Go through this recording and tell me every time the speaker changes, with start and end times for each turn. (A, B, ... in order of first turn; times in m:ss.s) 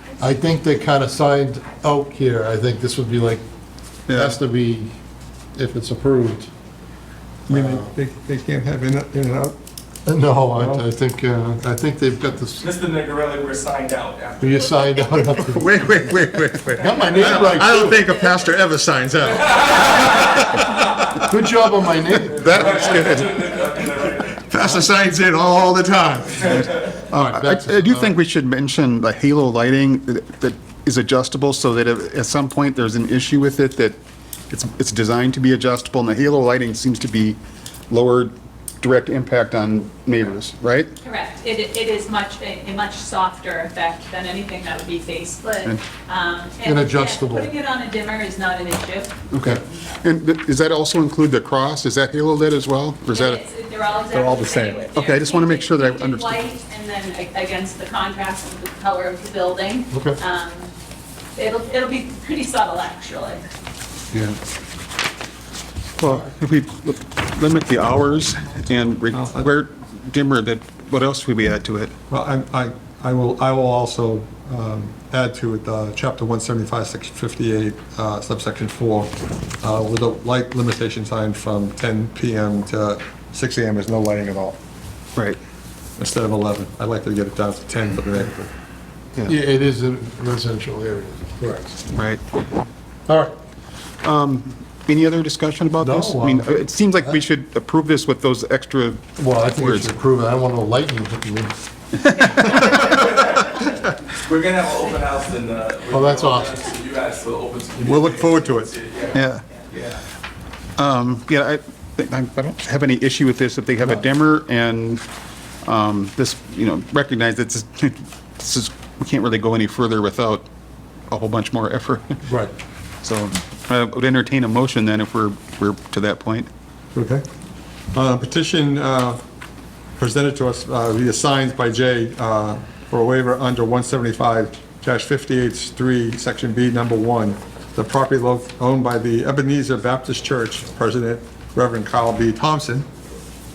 0:00.2-0:03.4 A
0:04.1-0:04.4 B
0:04.1-0:04.9 A
0:05.5-0:06.5 A
0:07.5-0:09.5 C
0:07.5-0:07.9 A
0:10.0-0:12.7 A
0:10.6-0:10.8 C
0:12.6-0:14.7 D
0:14.4-0:16.1 A
0:15.5-0:21.3 C
0:16.8-0:18.1 A
0:19.2-0:20.4 D
0:21.2-0:23.3 A
0:22.3-0:23.6 B
0:22.4-0:24.5 D
0:24.4-0:26.6 C
0:26.8-0:28.2 A
0:27.3-0:34.0 B
0:34.5-0:37.4 B
0:37.9-0:40.9 B
0:41.0-0:49.1 E
0:46.6-0:47.5 A
0:49.3-0:53.4 B
0:53.1-1:00.7 E
0:54.1-0:54.9 C
0:55.0-0:56.4 B
0:59.9-1:00.2 A
1:01.4-1:03.4 E
1:06.0-1:11.9 B
1:09.1-1:09.4 C
1:12.1-1:19.1 C
1:19.6-1:24.6 C
1:26.0-1:28.5 C
1:29.2-1:31.8 A
1:31.9-1:32.2 B
1:33.1-1:33.3 A
1:34.0-1:39.9 B
1:35.8-1:36.5 A
1:39.2-1:41.5 A
1:42.4-1:42.9 C
1:42.7-1:50.0 D
1:45.9-1:46.6 A
1:47.8-1:48.7 C
1:49.1-1:49.4 B
1:50.8-1:55.0 B
1:55.6-2:00.5 B
2:01.1-2:02.2 B
2:02.2-2:02.5 A
2:03.0-2:06.5 B
2:06.9-2:07.2 C
2:07.9-2:09.2 C
2:10.0-2:22.9 C